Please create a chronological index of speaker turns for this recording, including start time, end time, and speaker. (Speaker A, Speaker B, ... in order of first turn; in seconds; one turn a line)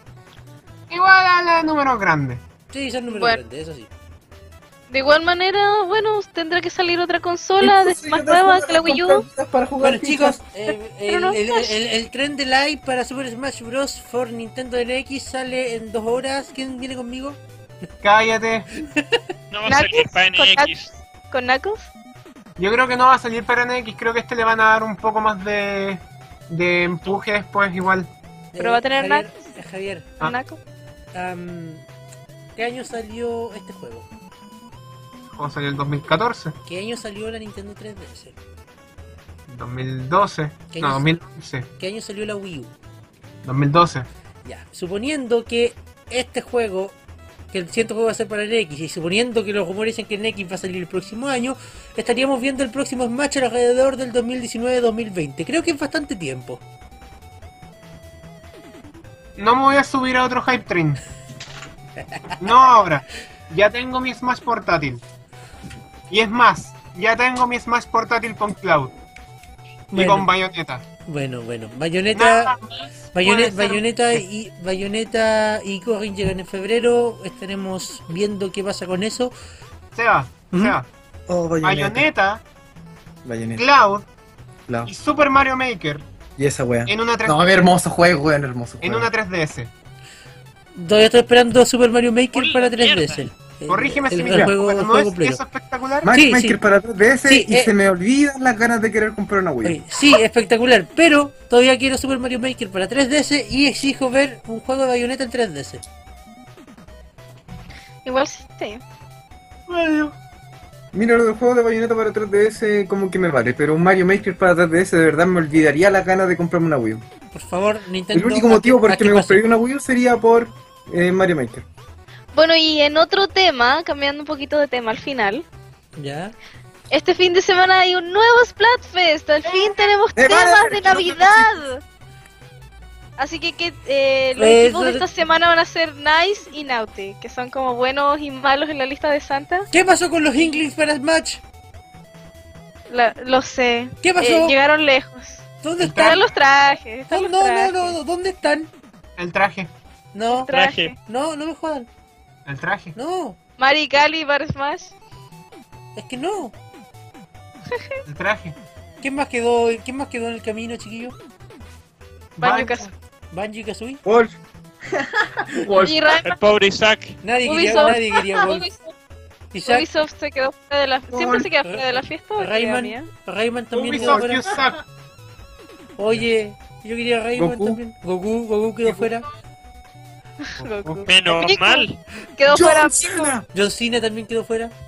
Speaker A: 0.9-2.4
Speaker B: 2.7-3.9
Speaker C: 3.1-3.4
Speaker C: 4.9-9.2
Speaker D: 7.6-10.4
Speaker B: 9.8-17.4
Speaker C: 10.7-11.7
Speaker A: 18.0-18.7
Speaker B: 18.9-19.2
Speaker E: 19.5-20.9
Speaker C: 19.6-20.7
Speaker C: 21.3-21.9
Speaker A: 22.6-28.1
Speaker B: 28.5-30.1
Speaker C: 28.6-29.3
Speaker C: 30.2-30.6
Speaker B: 31.1-31.8
Speaker B: 32.5-34.1
Speaker A: 35.3-36.6
Speaker B: 36.6-38.4
Speaker A: 39.5-41.7
Speaker B: 40.7-41.1
Speaker B: 41.8-42.7
Speaker A: 43.4-44.1
Speaker B: 44.4-47.0
Speaker B: 47.5-56.6
Speaker A: 59.4-61.0
Speaker A: 62.4-65.0
Speaker A: 66.1-68.9
Speaker B: 69.9-70.3
Speaker A: 69.9-70.8
Speaker B: 71.1-72.5
Speaker A: 72.1-74.2
Speaker B: 73.1-79.3
Speaker A: 80.0-80.9
Speaker B: 80.5-80.8
Speaker D: 81.3-82.1
Speaker A: 81.6-82.4
Speaker D: 83.2-83.7
Speaker A: 83.6-84.1
Speaker A: 84.9-86.1
Speaker D: 86.4-89.1
Speaker A: 86.9-87.4
Speaker A: 88.8-89.7
Speaker B: 90.8-95.4
Speaker E: 92.3-93.2
Speaker A: 93.7-96.1
Speaker D: 96.0-99.8
Speaker B: 96.1-96.6
Speaker B: 97.2-97.7
Speaker B: 99.6-105.8
Speaker C: 108.0-108.8
Speaker A: 109.7-110.2
Speaker D: 110.9-117.0
Speaker B: 117.3-119.4
Speaker D: 118.1-121.7
Speaker C: 122.3-125.5
Speaker B: 126.0-126.3
Speaker C: 126.9-131.8
Speaker A: 129.4-129.9
Speaker D: 130.2-131.5
Speaker C: 133.2-139.7
Speaker B: 134.4-135.1
Speaker B: 139.7-141.4
Speaker C: 142.9-148.0
Speaker B: 144.0-144.6
Speaker B: 145.6-146.2
Speaker A: 145.8-146.2
Speaker B: 147.1-148.7
Speaker A: 149.2-149.7
Speaker B: 150.1-150.5
Speaker C: 150.3-151.0
Speaker E: 150.5-150.9
Speaker B: 151.0-151.9
Speaker A: 152.5-152.9
Speaker B: 152.9-153.4
Speaker C: 153.6-154.9
Speaker B: 155.9-156.5
Speaker C: 157.7-158.0
Speaker A: 158.1-158.6
Speaker B: 159.0-161.2
Speaker A: 162.4-162.9
Speaker C: 162.4-162.9
Speaker B: 163.3-164.0
Speaker D: 164.1-166.0
Speaker C: 165.8-166.4
Speaker E: 166.2-167.2
Speaker B: 167.2-168.7
Speaker C: 167.4-168.9
Speaker B: 169.5-169.9
Speaker C: 169.7-173.1
Speaker D: 171.1-171.5
Speaker B: 171.6-174.5
Speaker A: 173.7-174.8
Speaker B: 176.0-179.2
Speaker D: 177.3-177.8
Speaker C: 180.4-183.3
Speaker A: 180.6-181.5
Speaker E: 181.1-182.0
Speaker D: 182.5-183.4
Speaker B: 183.5-184.7